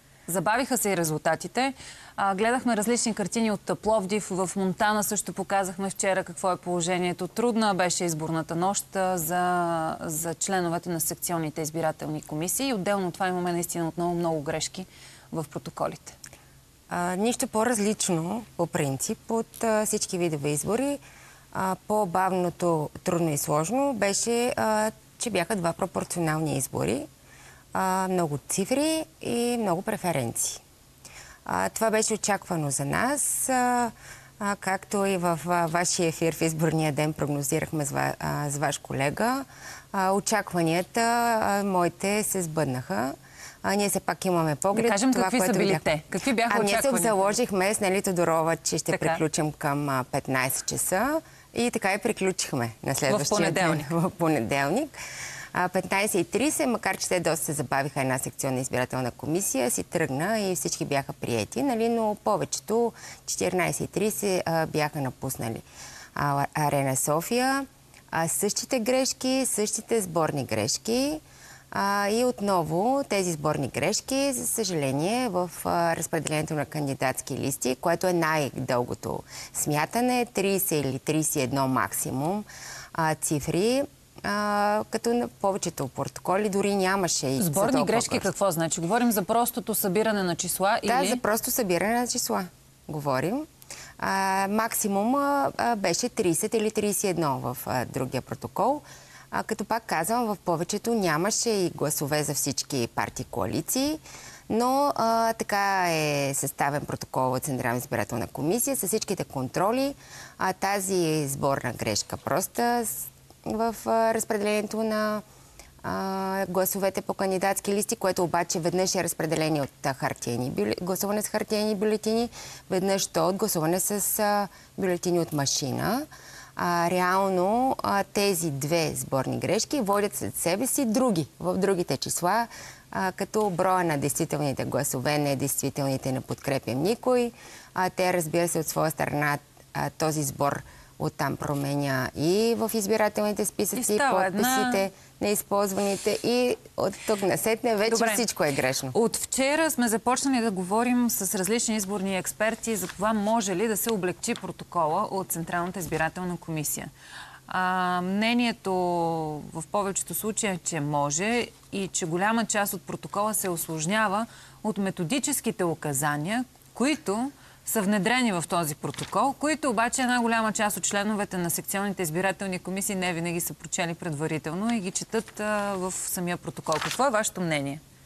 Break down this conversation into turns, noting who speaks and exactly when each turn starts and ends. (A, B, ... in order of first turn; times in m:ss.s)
0:00.3-0:16.2 A
0:16.9-0:21.0 B
0:21.5-0:27.1 B
0:27.7-0:30.6 B
0:31.5-0:45.9 B
0:44.7-0:47.3 A
0:46.5-0:54.9 B
0:48.9-0:49.2 A
0:53.1-0:53.9 A
0:55.5-1:28.3 B
1:27.4-1:31.2 A
1:30.8-1:33.5 B
1:34.0-1:55.2 B
1:55.8-2:29.0 B
2:23.8-2:24.9 A
2:27.9-2:28.2 A
2:28.9-2:36.9 A
2:37.5-2:57.8 A